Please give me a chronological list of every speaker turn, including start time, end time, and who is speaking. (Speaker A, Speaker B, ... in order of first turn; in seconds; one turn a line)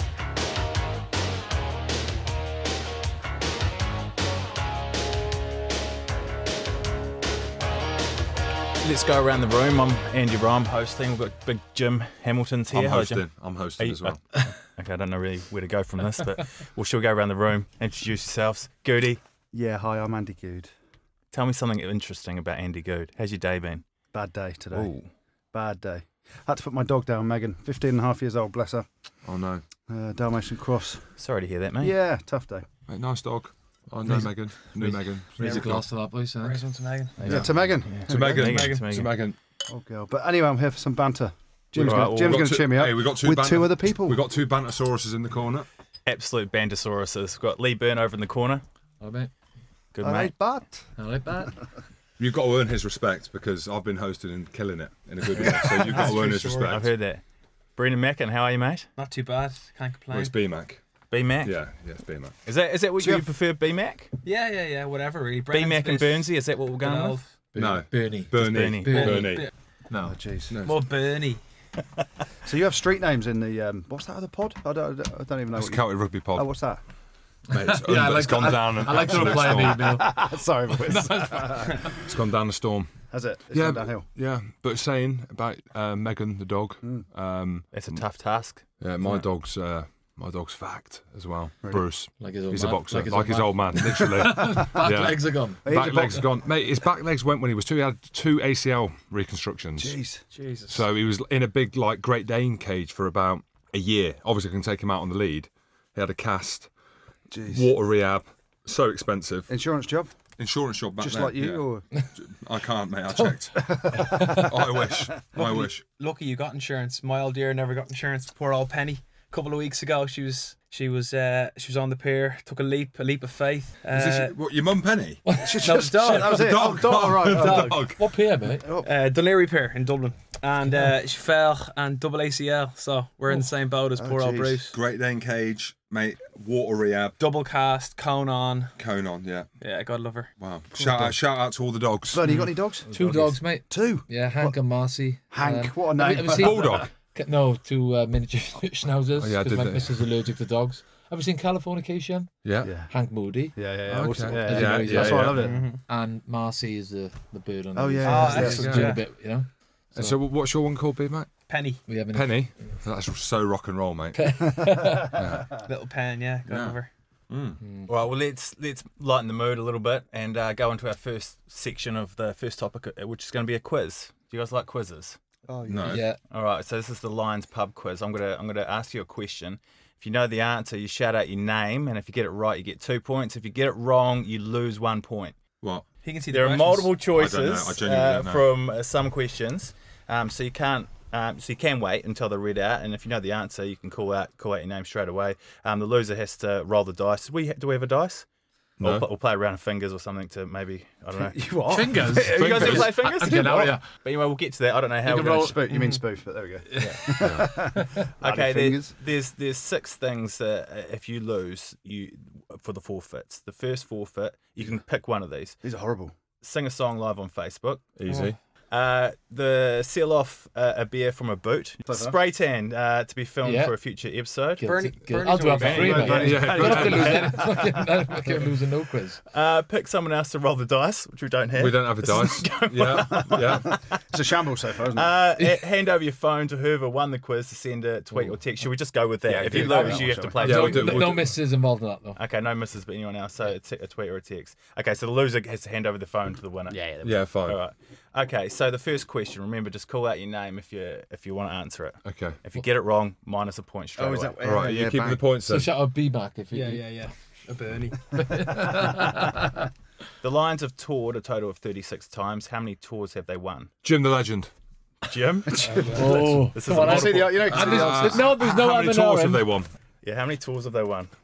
Speaker A: 8.8-19.2
Speaker B: 12.7-14.3
Speaker C: 19.5-20.7
Speaker A: 21.3-23.9
Speaker C: 24.1-24.9
Speaker A: 24.7-25.1
Speaker C: 25.5-28.9
Speaker B: 29.2-29.6
Speaker C: 29.9-31.1
Speaker A: 31.2-31.9
Speaker C: 31.8-32.7
Speaker B: 32.9-35.9
Speaker D: 34.0-36.6
Speaker E: 36.4-37.2
Speaker A: 37.2-39.2
Speaker C: 37.2-38.1
Speaker B: 37.3-39.4
Speaker E: 38.1-38.8
Speaker C: 39.7-44.2
Speaker A: 41.8-42.4
Speaker B: 41.8-45.7
Speaker A: 46.1-48.6
Speaker D: 49.0-49.3
Speaker A: 49.9-50.3
Speaker C: 50.0-50.8
Speaker D: 51.0-51.6
Speaker B: 52.2-56.9
Speaker E: 55.6-56.7
Speaker A: 55.9-57.2
Speaker A: 57.8-58.9
Speaker E: 59.0-60.4
Speaker B: 60.1-60.8
Speaker A: 61.1-61.6
Speaker B: 61.4-62.4
Speaker A: 62.5-64.1
Speaker C: 63.0-63.3
Speaker E: 64.2-67.3
Speaker A: 65.5-67.2
Speaker D: 67.5-69.3
Speaker B: 67.5-69.5
Speaker A: 68.3-69.2
Speaker E: 68.9-69.5
Speaker D: 69.9-70.2
Speaker C: 70.0-70.6
Speaker B: 70.5-70.8
Speaker E: 70.6-71.4
Speaker C: 72.4-76.8
Speaker B: 75.5-76.5
Speaker B: 77.5-80.0
Speaker D: 77.5-81.9
Speaker C: 79.1-82.0
Speaker B: 81.9-82.9
Speaker C: 83.1-84.1
Speaker B: 83.5-88.0
Speaker C: 86.8-87.1
Speaker A: 87.7-88.7
Speaker B: 88.8-100.0
Speaker D: 92.2-95.7
Speaker C: 94.2-95.0
Speaker C: 95.7-96.4
Speaker C: 99.8-100.2
Speaker E: 100.3-100.8
Speaker B: 100.7-106.7
Speaker C: 107.3-107.8
Speaker B: 107.5-109.5
Speaker C: 109.5-110.1
Speaker B: 110.4-115.8
Speaker C: 111.0-111.9
Speaker C: 113.6-114.5
Speaker D: 114.1-114.4
Speaker E: 115.3-124.3
Speaker B: 123.9-125.4
Speaker D: 125.3-126.5
Speaker C: 125.4-127.8
Speaker E: 125.6-126.7
Speaker B: 126.0-128.1
Speaker D: 127.3-128.7
Speaker E: 127.3-127.7
Speaker C: 128.5-128.9
Speaker E: 128.8-134.8
Speaker C: 134.0-134.6
Speaker B: 134.7-137.2
Speaker E: 137.2-138.8
Speaker B: 138.8-139.5
Speaker E: 139.6-140.3
Speaker B: 140.4-142.5
Speaker C: 140.8-141.2
Speaker C: 142.1-144.6
Speaker D: 142.9-160.2
Speaker C: 145.3-146.9
Speaker B: 146.3-146.9
Speaker B: 149.2-150.0
Speaker B: 152.4-152.7
Speaker C: 152.6-152.9
Speaker C: 153.6-155.7
Speaker B: 153.9-155.6
Speaker E: 155.3-155.8
Speaker C: 157.8-158.9
Speaker E: 158.0-159.0
Speaker B: 158.2-159.0
Speaker B: 159.9-161.3
Speaker E: 161.5-161.8
Speaker D: 161.9-162.6
Speaker B: 162.1-164.5
Speaker D: 164.2-165.2
Speaker C: 164.7-165.0
Speaker B: 165.0-165.6
Speaker E: 165.6-166.9
Speaker B: 166.5-166.8
Speaker B: 167.3-167.6
Speaker D: 167.6-167.9
Speaker A: 167.9-175.2
Speaker C: 175.4-176.1
Speaker B: 175.7-176.1
Speaker D: 175.8-176.2
Speaker A: 176.3-185.4
Speaker B: 185.6-185.8
Speaker E: 186.0-187.0
Speaker A: 186.3-198.3
Speaker B: 187.0-188.6
Speaker B: 198.8-199.1
Speaker A: 198.8-205.7
Speaker C: 201.2-202.6
Speaker D: 201.7-203.9
Speaker B: 202.2-203.1
Speaker C: 203.2-203.8
Speaker D: 205.0-206.0
Speaker C: 205.2-208.9
Speaker D: 206.7-207.2
Speaker A: 206.8-207.2
Speaker B: 207.2-207.7
Speaker A: 208.2-215.6
Speaker C: 215.6-216.1
Speaker A: 216.4-217.9
Speaker B: 218.0-218.4
Speaker A: 218.7-224.7
Speaker C: 221.9-222.2
Speaker D: 223.4-223.8
Speaker D: 224.6-229.2
Speaker E: 224.6-226.2
Speaker A: 225.6-226.3
Speaker C: 225.7-227.8
Speaker B: 226.1-227.4
Speaker A: 229.3-233.9
Speaker B: 231.5-233.8
Speaker C: 233.2-235.2
Speaker A: 234.9-241.2
Speaker C: 239.3-240.9
Speaker D: 239.6-242.2
Speaker B: 240.3-241.4
Speaker A: 242.2-254.4
Speaker C: 246.7-247.2
Speaker B: 247.0-247.6
Speaker B: 252.0-252.4
Speaker C: 254.0-255.2
Speaker E: 254.4-255.1
Speaker B: 254.4-255.8
Speaker D: 255.4-256.9
Speaker E: 256.5-258.6
Speaker D: 258.1-259.6
Speaker A: 260.2-263.7
Speaker B: 263.8-264.5
Speaker A: 265.1-267.7
Speaker C: 265.5-268.2
Speaker D: 265.9-269.5
Speaker B: 267.3-269.7
Speaker A: 270.0-271.1